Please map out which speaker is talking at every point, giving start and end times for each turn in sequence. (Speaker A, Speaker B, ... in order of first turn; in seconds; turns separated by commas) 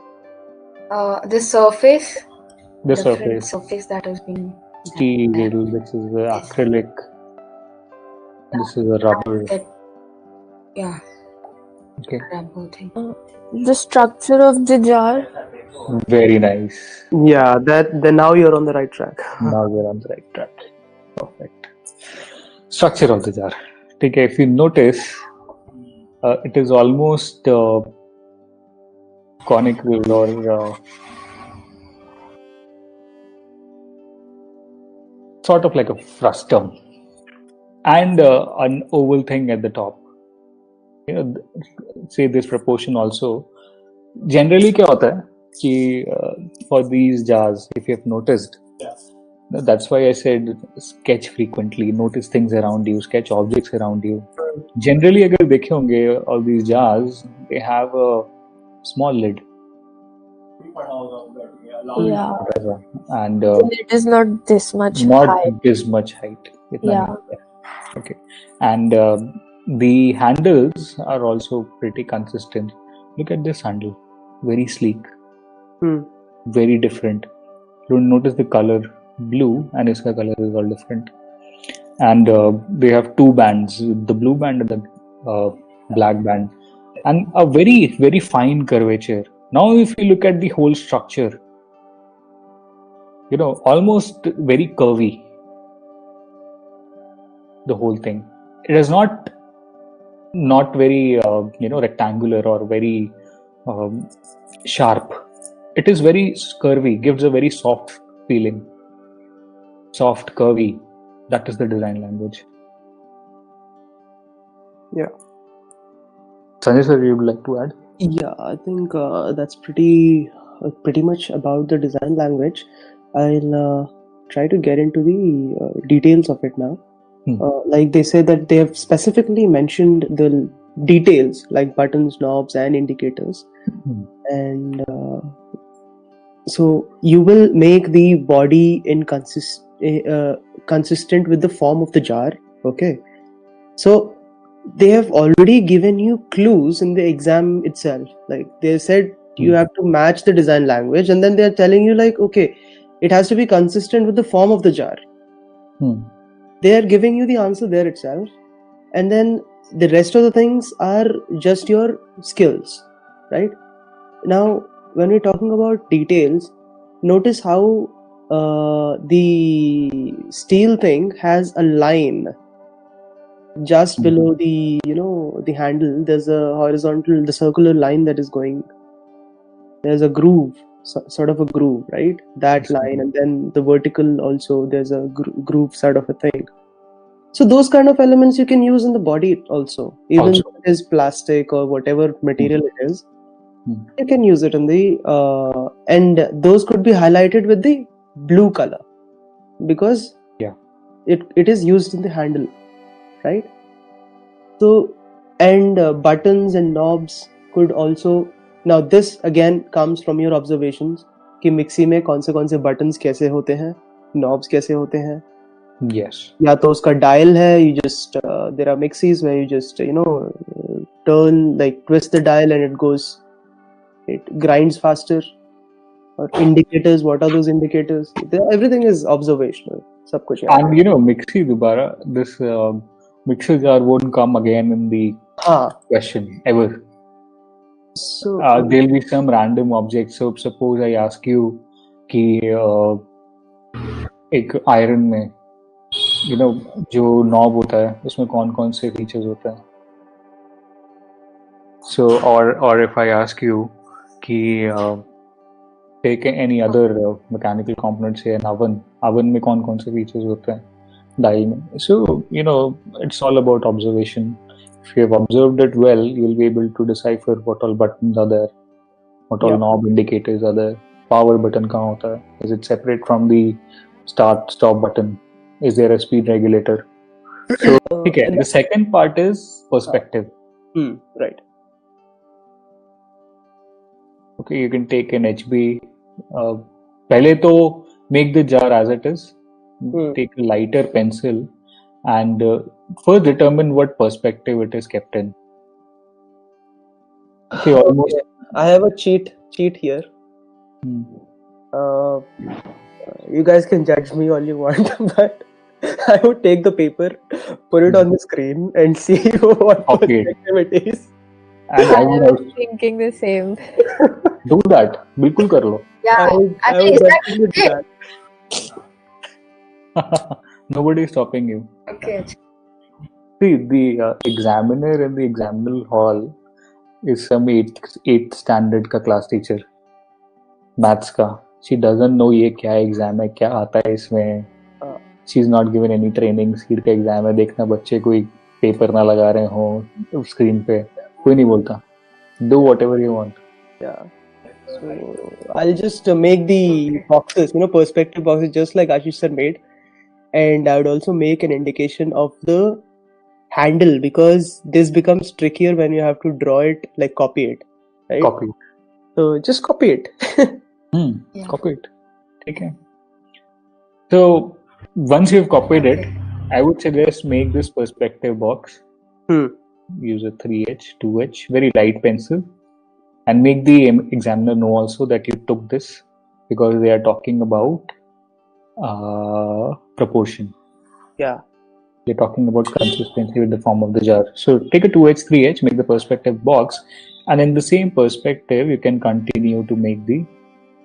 Speaker A: 0.9-2.2, Speaker B: 2.9-3.5, Speaker A: 2.9-5.5, Speaker B: 4.9-7.0, Speaker B: 8.5-9.6, Speaker A: 8.5-9.6, Speaker B: 12.0-12.3, Speaker A: 12.2-12.9, Speaker C: 13.0-15.3, Speaker B: 15.8-17.0, Speaker D: 17.1-19.6, Speaker B: 19.4-21.7, Speaker B: 22.7-25.2, Speaker B: 26.2-27.9, Speaker B: 29.4-30.8, Speaker B: 35.4-36.7, Speaker B: 37.9-40.0, Speaker B: 41.1-41.4, Speaker B: 42.0-43.5, Speaker B: 44.3-48.6, Speaker B: 49.5-58.3, Speaker B: 58.8-59.4, Speaker C: 62.0-62.4, Speaker B: 62.3-63.7, Speaker C: 63.6-65.5, Speaker B: 64.9-67.4, Speaker C: 66.8-67.1, Speaker B: 67.9-75.0, Speaker D: 75.8-76.1, Speaker B: 76.5-77.3, Speaker B: 77.9-81.1, Speaker B: 82.0-86.5, Speaker B: 87.0-91.4, Speaker B: 93.3-95.2, Speaker B: 97.7-99.3, Speaker B: 100.3-103.2, Speaker B: 103.7-104.1, Speaker B: 104.7-105.2, Speaker B: 105.8-108.7, Speaker B: 109.9-112.5, Speaker B: 116.6-117.8, Speaker D: 118.0-126.8, Speaker D: 127.4-133.5, Speaker D: 134.3-135.3, Speaker D: 136.5-143.0, Speaker D: 143.8-155.0, Speaker B: 155.8-156.1, Speaker D: 156.6-158.3, Speaker D: 158.9-163.6, Speaker D: 164.2-172.3, Speaker D: 173.6-178.7, Speaker B: 174.0-174.2, Speaker D: 179.8-186.5, Speaker B: 182.6-182.9, Speaker D: 187.3-193.1, Speaker B: 190.2-190.4, Speaker D: 194.0-198.8, Speaker D: 199.6-200.2, Speaker D: 201.1-202.5, Speaker D: 203.2-203.5, Speaker D: 204.6-215.2, Speaker B: 215.8-216.3, Speaker D: 216.4-223.2, Speaker D: 224.1-225.3, Speaker D: 226.2-230.7, Speaker B: 230.5-235.2, Speaker D: 235.4-235.8, Speaker B: 235.9-236.8, Speaker D: 238.0-238.7, Speaker B: 238.4-243.0, Speaker B: 244.3-245.3, Speaker B: 246.2-249.6, Speaker B: 251.8-255.0, Speaker B: 256.0-260.6, Speaker B: 261.2-268.5, Speaker B: 269.3-276.9, Speaker B: 277.5-280.3, Speaker D: 277.5-278.4, Speaker D: 280.8-281.4, Speaker B: 284.4-285.8, Speaker B: 286.3-291.5, Speaker B: 292.1-295.4, Speaker B: 297.6-298.2, Speaker D: 298.1-300.1, Speaker B: 300.9-301.2, Speaker D: 301.7-302.3, Speaker D: 303.1-311.1, Speaker B: 309.9-310.3, Speaker B: 311.7-312.5, Speaker C: 312.0-313.7, Speaker B: 314.4-315.9, Speaker A: 316.1-317.7, Speaker D: 316.2-317.8, Speaker B: 320.0-321.7, Speaker A: 321.9-322.3, Speaker B: 323.4-326.3, Speaker B: 327.1-329.6, Speaker B: 330.8-334.5, Speaker B: 335.3-341.8, Speaker B: 342.4-343.4, Speaker D: 343.8-344.1, Speaker D: 344.7-349.6, Speaker D: 350.3-352.8, Speaker D: 353.5-358.3, Speaker B: 358.2-358.5, Speaker D: 359.2-360.6, Speaker B: 360.9-361.9, Speaker B: 362.4-362.7, Speaker B: 364.1-368.8, Speaker A: 365.8-366.0, Speaker D: 369.3-369.5, Speaker B: 370.0-372.4, Speaker B: 373.3-377.9, Speaker B: 378.8-380.5, Speaker B: 382.1-390.3